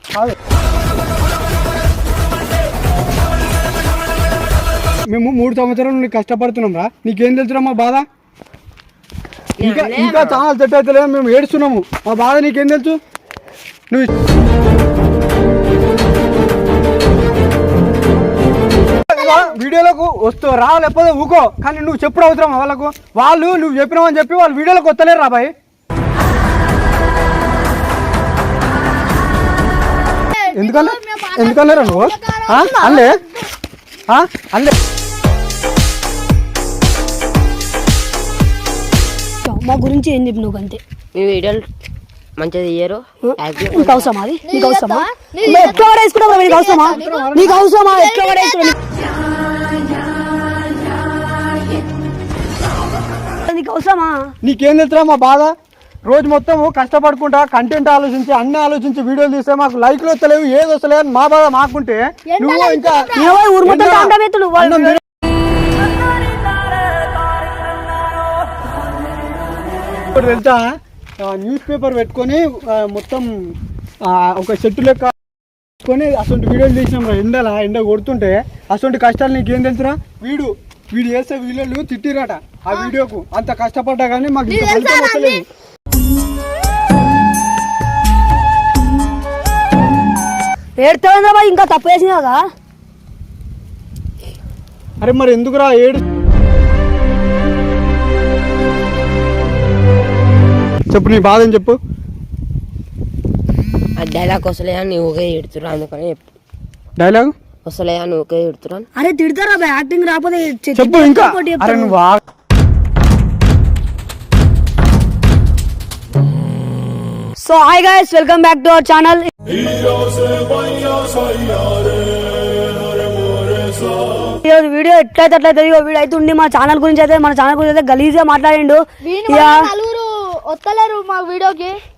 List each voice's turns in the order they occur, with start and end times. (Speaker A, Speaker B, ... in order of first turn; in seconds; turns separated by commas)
Speaker A: 5.1-8.1, Speaker B: 9.6-10.4, Speaker A: 9.6-13.0, Speaker A: 19.1-25.5, Speaker C: 19.2-19.5, Speaker C: 30.3-33.5, Speaker A: 30.5-33.2, Speaker A: 34.1-34.7, Speaker D: 39.4-40.8, Speaker B: 41.1-41.7, Speaker B: 42.4-44.1, Speaker D: 43.2-48.7, Speaker C: 44.4-48.7, Speaker A: 46.9-47.6, Speaker D: 53.4-54.3, Speaker A: 54.4-55.5, Speaker A: 56.0-63.1, Speaker C: 62.3-63.4, Speaker D: 63.1-65.0, Speaker A: 63.6-65.0, Speaker D: 65.7-67.6, Speaker A: 70.1-73.3, Speaker A: 74.0-75.1, Speaker A: 75.8-85.4, Speaker C: 84.5-85.4, Speaker D: 90.8-92.4, Speaker A: 95.0-96.0, Speaker A: 100.9-101.8, Speaker B: 104.0-106.2, Speaker A: 107.0-107.3, Speaker B: 107.6-108.9, Speaker D: 109.0-111.9, Speaker A: 110.7-112.2, Speaker D: 117.4-119.5, Speaker D: 124.4-129.7, Speaker C: 129.0-131.8